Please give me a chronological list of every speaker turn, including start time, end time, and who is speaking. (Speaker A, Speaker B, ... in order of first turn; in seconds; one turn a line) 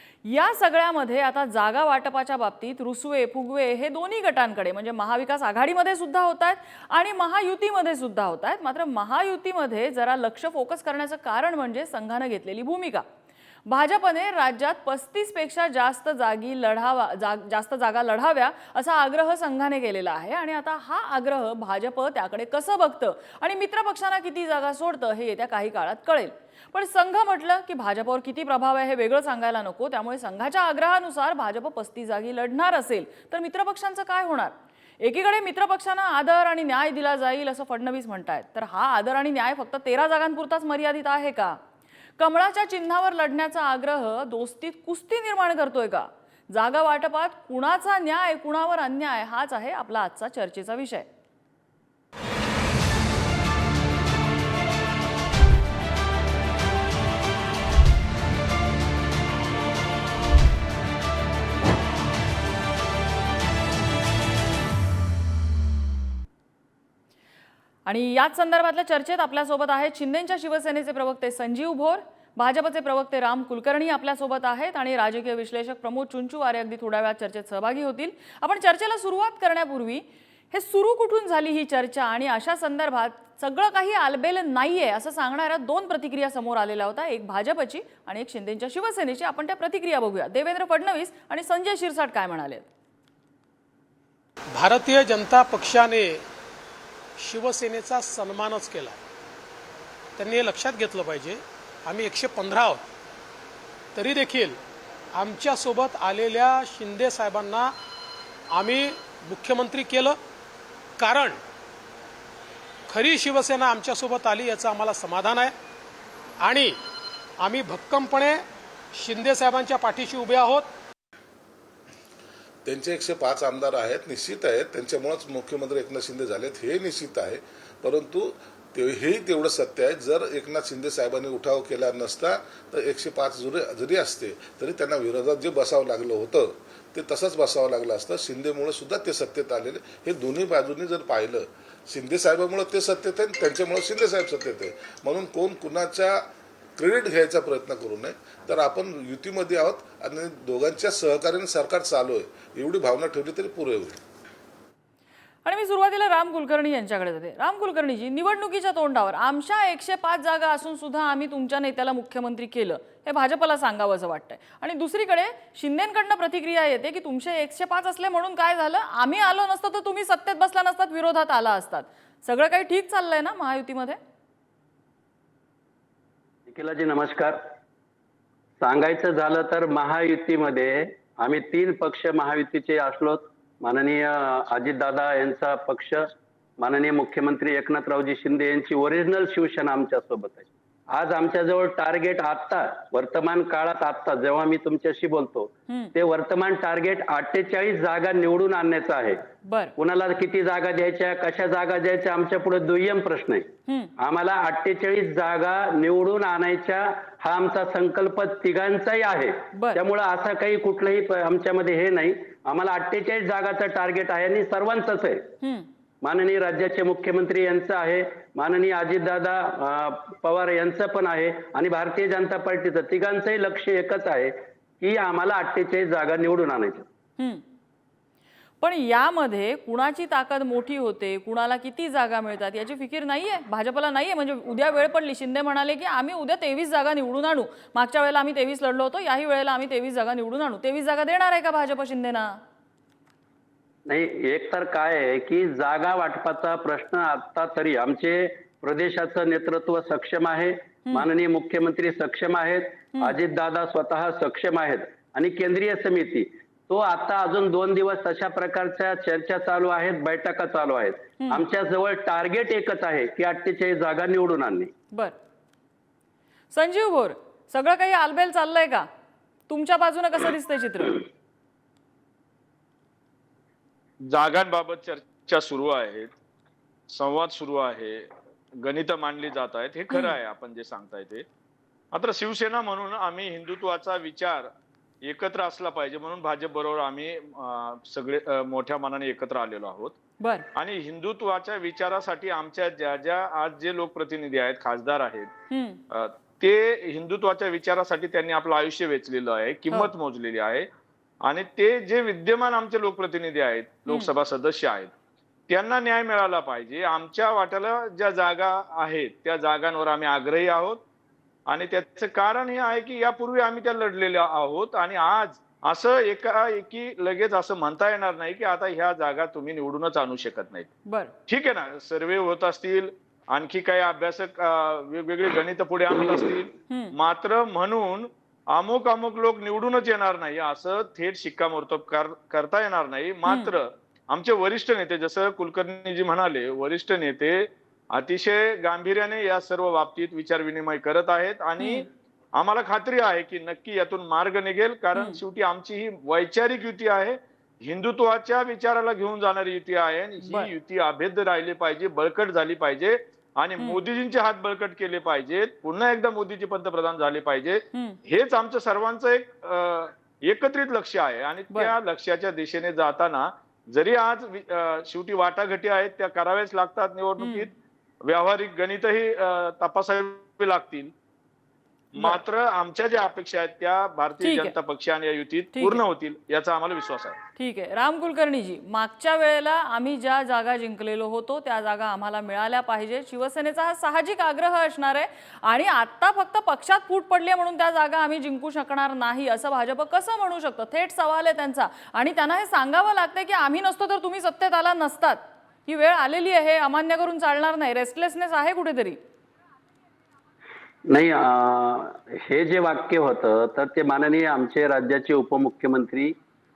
Speaker A: 0.2-13.0
Speaker A: 13.7-41.6
Speaker A: 42.2-51.0
Speaker A: 67.8-92.7
Speaker B: 94.5-96.2
Speaker B: 97.2-99.0
Speaker B: 100.2-102.8
Speaker B: 103.9-104.6
Speaker B: 105.1-107.7
Speaker B: 108.5-110.2
Speaker B: 111.0-111.4
Speaker B: 112.9-115.5
Speaker B: 116.4-116.8
Speaker B: 117.4-118.4
Speaker B: 118.9-120.7
Speaker C: 122.6-154.0
Speaker A: 155.4-174.0
Speaker D: 176.5-177.4
Speaker D: 178.6-186.0
Speaker D: 186.6-199.2
Speaker A: 199.4-199.7
Speaker D: 199.8-203.5
Speaker A: 203.7-203.9
Speaker D: 204.0-215.3
Speaker A: 209.5-209.8
Speaker A: 215.4-215.7
Speaker D: 216.0-226.8
Speaker A: 228.6-242.4
Speaker D: 243.9-264.7
Speaker A: 266.5-268.9
Speaker A: 269.5-271.0
Speaker E: 274.1-276.1
Speaker E: 276.9-278.0
Speaker E: 278.6-281.2
Speaker E: 281.9-284.5
Speaker E: 285.0-290.0
Speaker A: 290.2-290.5
Speaker E: 290.5-295.3
Speaker A: 295.5-295.8
Speaker E: 295.9-300.7
Speaker E: 301.2-304.9
Speaker E: 305.5-310.8
Speaker E: 311.5-320.7
Speaker A: 320.9-321.1
Speaker E: 321.3-367.5
Speaker A: 326.7-326.9
Speaker A: 333.2-333.5
Speaker A: 341.6-341.8
Speaker A: 350.2-350.5
Speaker A: 357.7-358.0
Speaker A: 367.2-367.5
Speaker E: 368.0-370.9
Speaker E: 371.9-377.2
Speaker A: 374.2-374.5
Speaker A: 375.5-375.8
Speaker A: 377.4-399.0
Speaker D: 400.9-406.1